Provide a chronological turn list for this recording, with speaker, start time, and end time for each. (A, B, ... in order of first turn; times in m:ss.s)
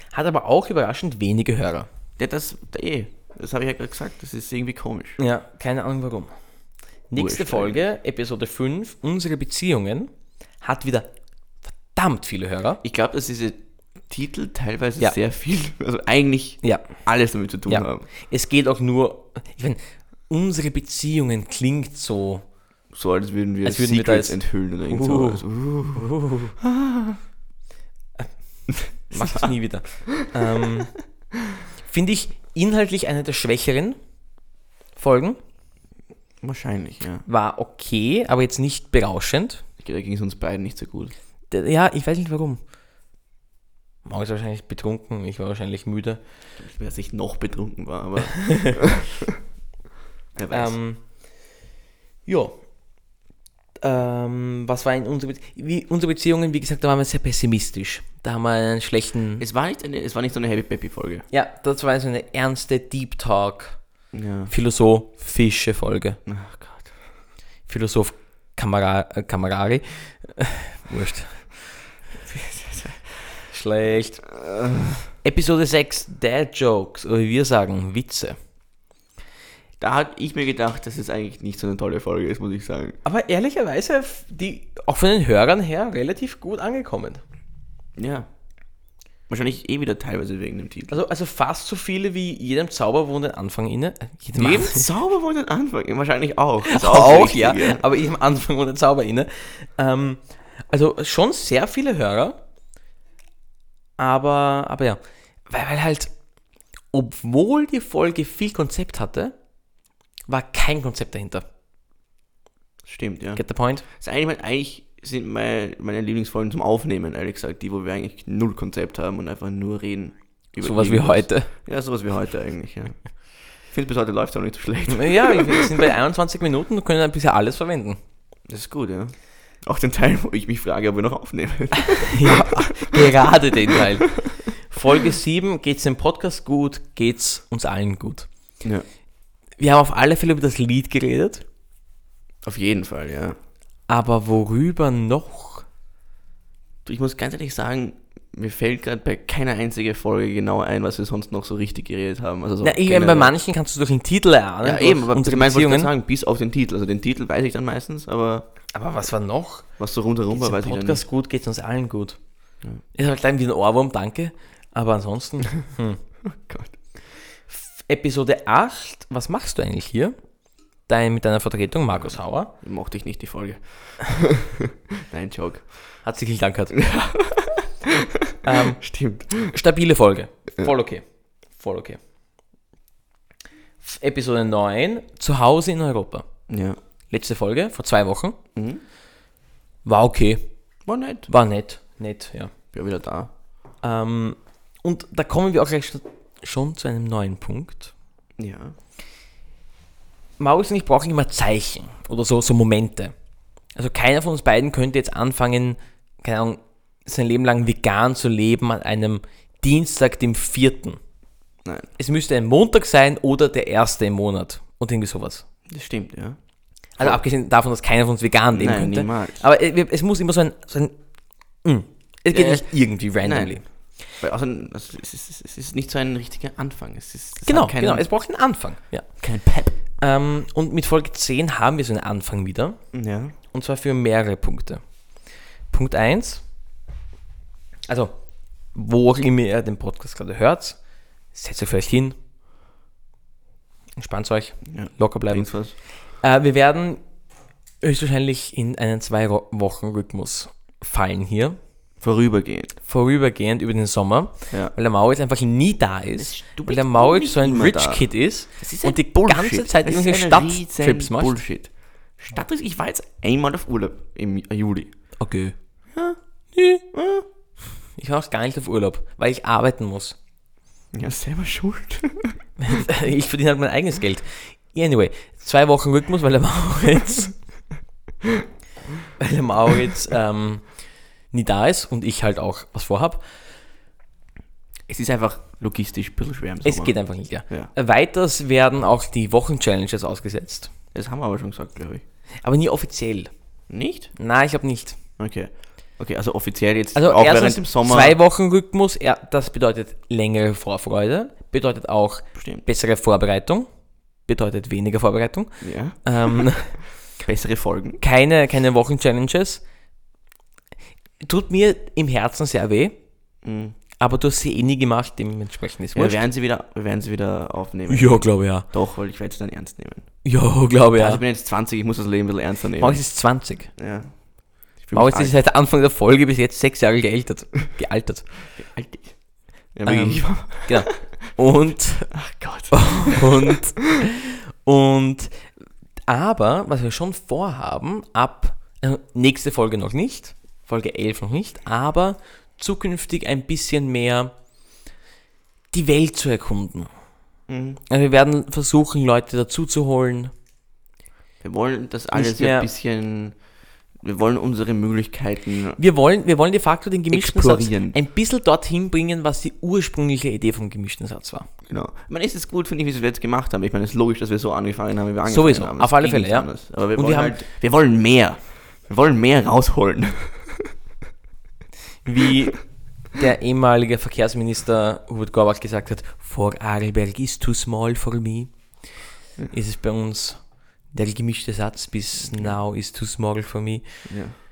0:00.1-0:01.9 A
0:02.2-0:05.2 B
0:05.2-0:06.3 A
0:07.1-0:11.1 A
0:07.2-0:07.8 B
0:11.7-0:12.8 A
0:12.8-0:18.1 B
0:16.6-0:17.0 A
0:17.6-0:22.5 A
0:22.9-0:27.2 B
0:23.6-0:26.6 A
0:28.8-0:29.5 B
0:28.9-0:30.9 A
0:31.8-0:34.0 A
0:34.9-0:35.4 A
0:36.4-0:37.2 B
0:37.2-0:39.6 A
0:39.8-0:41.1 B
0:41.5-0:42.6 A
0:44.0-0:46.2 A
0:46.6-0:49.4 B
0:48.4-0:48.7 A
0:50.3-0:50.8 B
0:50.5-0:51.0 A
0:52.2-0:52.6 A
0:53.8-0:59.4 A
0:59.4-1:01.2 B
1:01.3-1:03.8 A
1:04.1-1:04.5 B
1:04.5-1:06.2 A
1:06.2-1:06.9 B
1:07.7-1:11.7 A
1:12.2-1:13.5 B
1:13.5-1:14.3 A
1:14.3-1:15.1 B
1:15.2-1:18.4 A
1:19.8-1:23.0 B
1:23.0-1:27.2 A
1:28.0-1:28.3 B
1:29.3-1:31.0 B
1:30.9-1:34.9 A
1:34.4-1:37.8 B
1:36.7-1:42.4 A
1:44.0-1:46.1 A
1:46.9-1:49.4 A
1:50.3-1:51.4 A
1:52.8-2:05.8 B
1:53.4-1:53.8 A
2:00.6-2:01.5 A
2:04.9-2:08.0 A
2:08.5-2:13.8 B
2:11.9-2:18.3 A
2:19.6-2:21.4 A
2:22.4-2:23.4 B
2:23.9-2:25.7 A
2:26.8-2:33.3 B
2:32.6-2:35.9 A
2:34.6-2:38.5 B
2:38.7-2:39.8 A
2:39.8-2:41.0 B
2:40.3-2:42.2 A
2:42.9-2:46.0 A
2:46.2-2:46.8 B
2:47.5-2:50.1 A
2:50.8-2:52.5 A
2:52.0-2:56.0 B
2:56.0-2:56.8 A
2:56.7-2:59.6 B
2:58.4-3:02.0 A
3:03.8-3:06.2 A
3:06.5-3:06.8 B
3:07.1-3:08.4 A
3:08.5-3:08.8 B
3:09.8-3:10.5 A
3:10.8-3:11.3 B
3:11.3-3:12.5 A
3:12.7-3:13.3 B
3:13.8-3:17.9 A
3:18.4-3:18.7 B
3:20.4-3:23.1 A
3:23.7-3:31.0 A
3:31.6-3:31.9 B
3:32.0-3:35.4 A
3:35.7-3:36.4 B
3:37.0-3:44.0 A
3:38.5-3:39.4 B
3:42.3-3:48.1 B
3:47.4-3:56.4 A
3:49.2-3:49.8 B
3:52.9-3:53.3 B
3:57.9-4:00.8 A
4:01.3-4:02.2 A
4:04.0-4:07.0 A
4:04.7-4:05.7 B
4:07.8-4:11.6 A
4:12.0-4:12.8 B
4:12.8-4:21.4 A
4:16.2-4:25.1 B
4:25.2-4:25.6 A
4:25.9-4:26.2 B
4:26.5-4:26.8 A
4:26.9-4:27.2 B
4:28.0-4:30.2 A
4:30.9-4:32.4 B
4:32.6-4:37.4 A
4:39.2-4:43.3 A
4:44.9-4:47.7 B
4:46.6-4:50.7 A
4:50.9-4:52.0 B
4:52.4-4:53.3 A
4:53.7-4:54.1 B
4:54.2-4:55.0 A
4:55.2-4:58.2 B
4:56.9-5:03.7 A
5:02.3-5:02.6 B
5:04.2-5:06.9 A
5:05.6-5:08.0 B
5:08.0-5:09.6 A
5:11.2-5:13.0 A
5:13.4-5:13.7 B
5:14.0-5:16.2 A
5:15.9-5:20.2 B
5:17.9-5:18.7 A
5:20.2-5:21.2 A
5:20.7-5:23.0 B
5:22.8-5:23.7 A
5:23.8-5:25.4 B
5:24.9-5:28.4 A
5:28.5-5:29.2 B
5:29.7-5:31.1 B
5:29.8-5:32.2 A
5:32.1-5:33.6 B
5:32.7-5:35.3 A
5:36.1-5:44.3 A
5:45.7-5:46.9 A
5:47.5-5:47.8 B
5:47.9-5:50.3 A
5:51.4-5:53.4 B
5:52.1-5:52.7 A
5:54.0-5:55.8 B
5:55.8-6:01.5 A
5:57.1-5:58.0 B
6:01.7-6:10.7 B
6:05.3-6:07.4 A
6:12.0-6:24.1 A
6:22.2-6:22.6 B
6:24.0-6:24.4 B